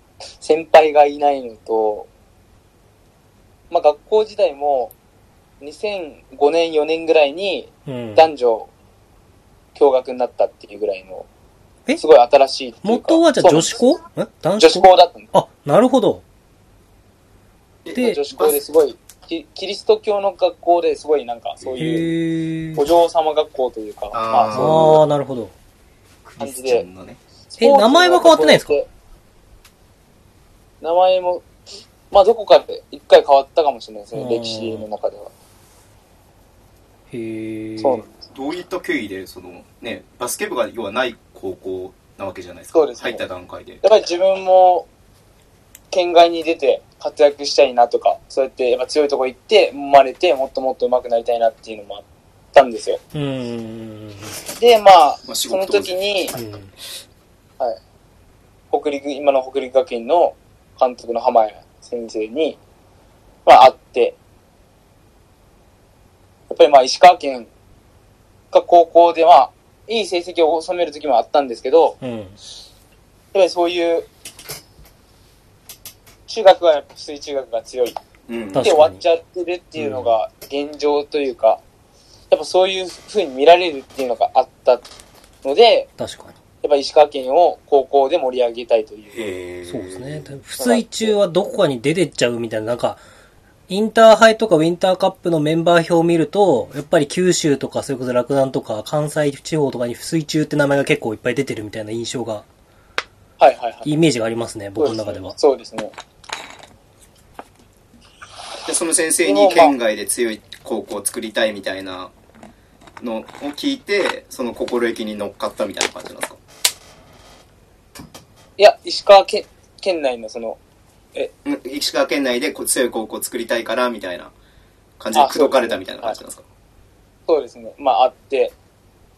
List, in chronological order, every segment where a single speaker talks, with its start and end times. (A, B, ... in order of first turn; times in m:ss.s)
0:00.4-0:02.1 A
0:03.7-0:04.9 A
0:05.6-0:08.7 A
0:07.8-0:08.3 B
0:09.7-0:11.3 A
0:12.0-0:13.8 A
0:12.8-0:16.2 B
0:14.6-0:15.3 A
0:17.8-0:18.6 C
0:17.9-0:18.2 B
0:18.0-0:22.1 A
0:21.6-0:21.9 C
0:21.8-0:22.8 B
0:22.7-0:25.0 A
0:24.1-0:25.0 C
0:24.5-0:25.5 B
0:26.2-0:27.2 C
0:26.4-0:26.8 A
0:27.5-0:28.9 A
0:27.6-0:28.8 B
0:30.8-0:31.4 A
0:32.1-0:35.3 A
0:34.1-0:34.9 B
0:37.1-0:38.0 B
0:37.8-0:38.1 A
0:38.3-0:43.8 C
0:42.7-0:43.2 A
0:43.8-0:44.9 A
0:45.9-0:53.0 A
0:53.1-0:54.4 B
0:54.6-0:56.4 A
0:55.2-0:56.4 C
0:56.3-0:56.7 B
0:58.7-1:02.6 A
1:03.4-1:04.2 A
1:06.5-1:07.5 A
1:08.5-1:12.0 A
1:12.0-1:12.4 B
1:13.3-1:14.1 A
1:16.3-1:18.0 A
1:18.3-1:18.8 C
1:18.5-1:19.0 B
1:18.6-1:21.6 A
1:19.8-1:20.1 B
1:22.3-1:24.8 A
1:25.4-1:25.9 A
1:26.0-1:26.4 B
1:26.6-1:29.2 A
1:29.1-1:30.4 C
1:29.6-1:33.0 B
1:30.6-1:31.1 A
1:33.7-1:42.4 B
1:43.4-1:43.9 A
1:43.8-1:45.3 B
1:44.8-1:45.9 A
1:48.6-1:52.1 C
1:49.2-1:49.7 A
1:53.0-1:56.4 C
1:58.6-2:00.6 A
2:01.4-2:04.3 C
2:05.0-2:06.4 C
2:05.1-2:06.2 A
2:07.3-2:08.5 A